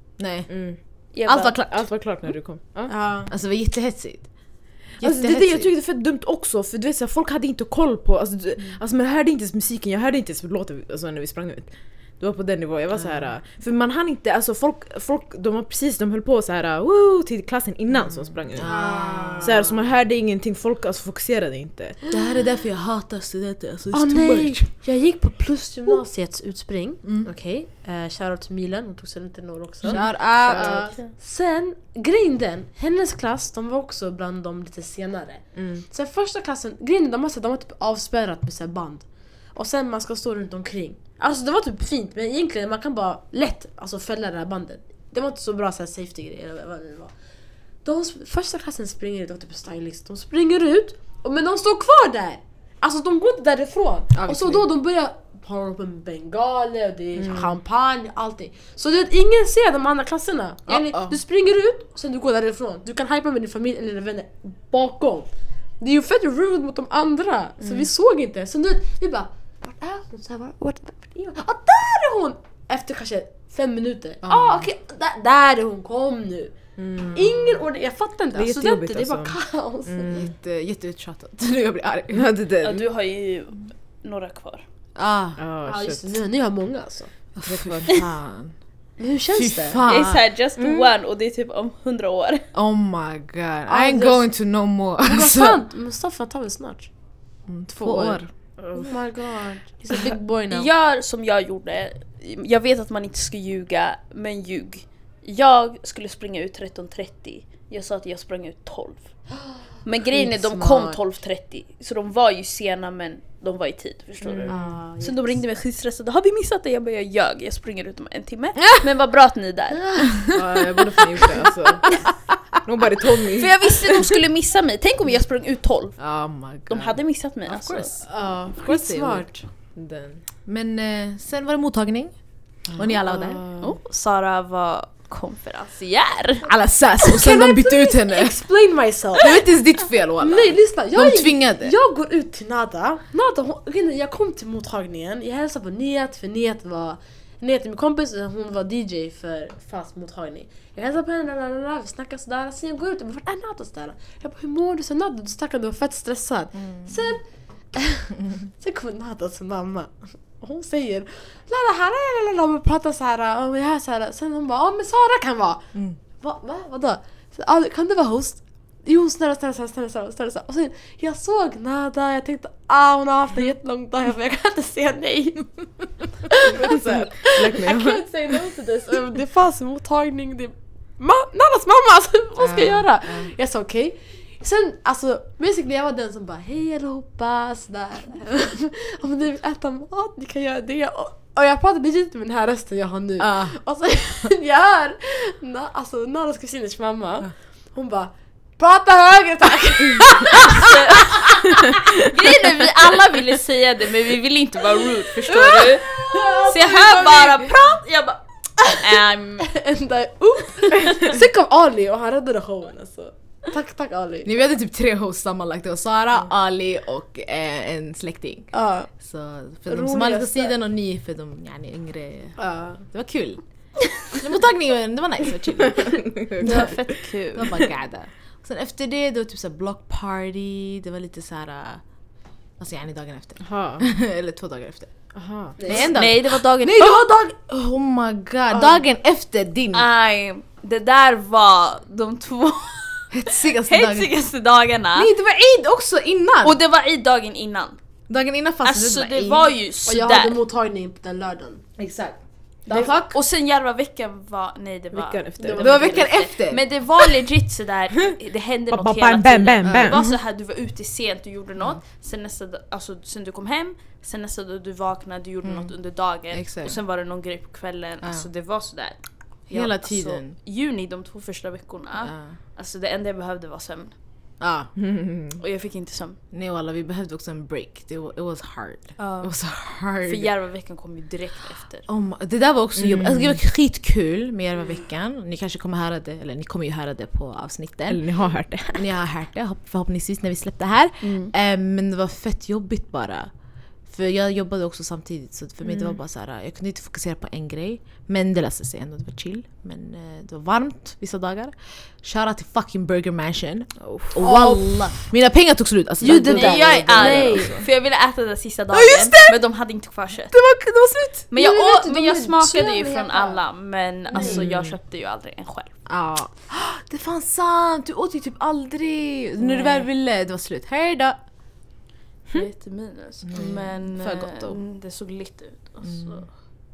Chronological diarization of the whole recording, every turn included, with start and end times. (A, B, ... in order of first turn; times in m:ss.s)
0:00.2-0:01.9 A
0:00.5-0:00.8 B
0:01.1-0:01.7 C
0:01.7-0:02.9 B
0:02.9-0:03.3 D
0:03.3-0:05.7 A
0:05.0-0:22.0 B
0:12.9-0:13.4 A
0:17.9-0:19.7 A
0:18.6-0:19.7 D
0:22.1-0:24.2 A
0:23.9-0:47.1 D
0:24.1-0:24.7 B
0:27.0-0:27.3 A
0:29.8-0:30.8 A
0:30.4-0:31.1 C
0:35.5-0:35.8 B
0:47.8-1:16.6 D
0:54.1-0:54.6 B
0:57.2-0:57.4 B
1:00.7-1:01.1 B
1:14.3-1:14.6 B
1:16.8-1:17.4 B
1:17.1-1:20.1 D
1:18.3-1:20.3 B
1:20.1-1:22.2 A
1:22.1-1:22.9 B
1:22.6-1:24.6 C
1:25.0-1:25.4 A
1:25.4-1:26.2 B
1:25.6-1:27.1 D
1:27.4-1:28.6 A
1:27.4-1:27.9 B
1:29.0-1:29.8 D
1:29.4-1:30.2 A
1:29.9-1:32.4 C
1:30.6-1:30.9 B
1:32.5-1:35.6 A
1:33.7-1:34.3 D
1:35.0-1:36.9 D
1:37.5-1:38.3 A
1:37.7-1:40.7 D
1:40.5-2:00.2 C
1:50.1-1:51.0 D
1:54.2-1:54.7 B
1:54.4-1:55.4 D
1:59.8-2:00.4 D
2:00.3-2:02.0 B
2:02.5-2:03.7 B
2:03.4-2:08.0 C
2:06.0-2:07.0 A
2:07.8-2:09.4 D
2:08.6-2:09.4 A
2:09.7-2:10.2 B
2:10.4-2:13.4 A
2:12.7-2:13.7 B
2:13.6-2:16.5 C
2:16.4-2:18.4 A
2:17.1-2:19.4 D
2:19.2-2:21.7 A
2:20.2-3:20.7 D
2:56.6-2:58.2 B
3:02.4-3:03.3 A
3:13.2-3:13.6 A
3:20.4-3:29.6 C
3:25.7-3:27.2 D
3:29.5-3:34.3 D
3:30.7-3:31.1 C
3:34.2-3:46.8 A
3:38.5-3:38.9 D
3:39.6-3:40.6 D
3:42.4-3:42.8 D
3:45.8-3:46.8 B
3:46.4-3:47.6 C
3:47.3-3:51.8 A
3:52.6-3:59.8 A
3:53.4-3:53.8 B
3:55.1-3:55.6 B
3:55.6-3:55.9 D
3:55.7-3:57.0 C
3:59.7-4:05.1 C
4:03.1-4:04.1 A
4:05.0-4:06.5 A
4:06.4-4:07.8 C
4:08.1-4:09.5 A
4:08.6-4:10.4 C
4:09.9-4:11.6 D
4:11.8-4:13.2 A
4:12.9-4:34.0 C
4:14.9-4:16.0 B
4:15.4-4:15.6 D
4:15.6-4:16.7 A
4:18.7-4:20.0 B
4:19.6-4:20.2 A
4:25.4-4:26.8 A
4:28.0-4:28.3 A
4:29.5-4:30.4 A
4:32.0-4:32.4 A
4:34.4-4:34.7 A
4:34.7-4:35.4 B
4:35.4-4:36.2 C
4:36.3-4:40.3 A
4:39.0-4:41.9 C
4:41.9-5:07.6 A
4:42.8-4:43.4 B
4:47.9-4:48.8 B
4:51.0-4:51.3 C
4:55.6-4:56.0 B
5:03.8-5:04.2 B
5:04.2-5:05.0 D
5:06.0-5:07.6 D
5:06.0-5:10.4 C
5:08.7-5:09.4 B
5:10.3-5:11.3 B
5:11.3-5:15.8 C
5:11.4-5:13.4 D
5:14.1-5:14.4 D
5:14.2-5:14.8 A
5:15.8-5:21.2 A
5:22.3-5:26.3 C
5:23.3-5:24.6 A